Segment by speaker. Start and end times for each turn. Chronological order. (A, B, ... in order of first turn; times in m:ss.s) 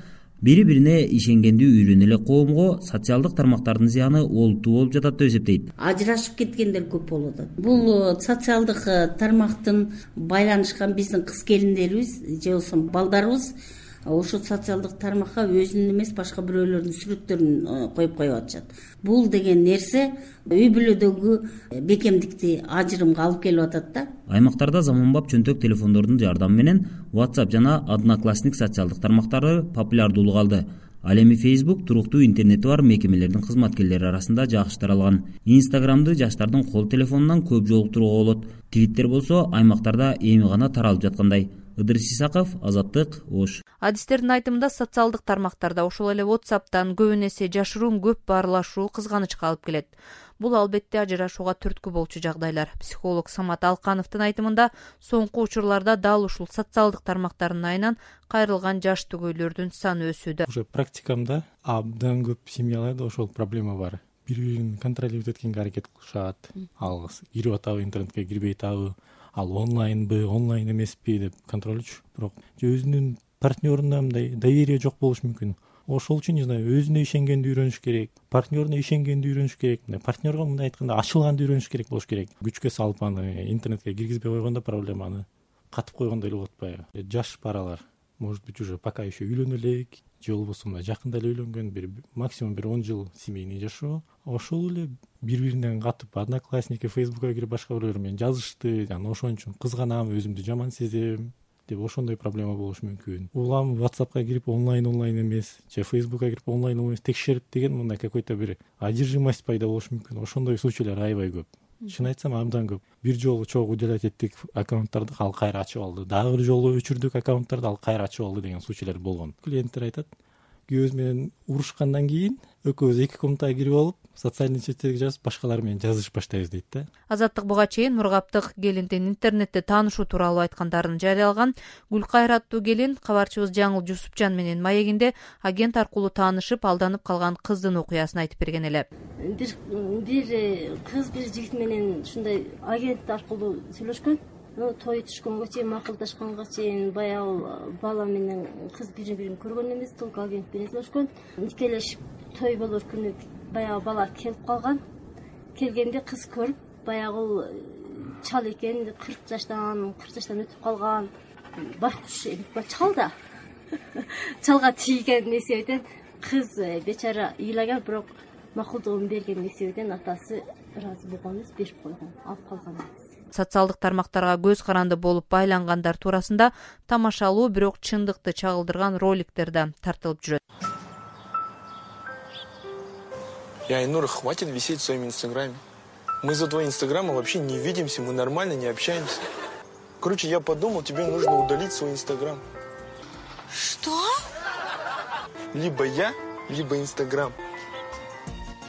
0:00.4-0:05.7 A
0:05.8-0:13.5 B
0:14.1-0:24.1 B
0:24.3-0:43.6 A
0:43.8-1:00.4 C
1:00.4-2:00.1 D
2:00.7-2:06.9 D
2:07.1-2:18.9 C
2:19.3-2:20.4 E
2:20.9-2:34.8 E
2:35.6-2:41.1 E
2:41.8-2:43.1 E
2:44.5-2:52.9 E
2:53.3-3:00.4 C
3:03.7-3:05.6 F
3:06.2-3:09.1 F
3:10.0-3:12.4 F
3:15.6-3:17.3 F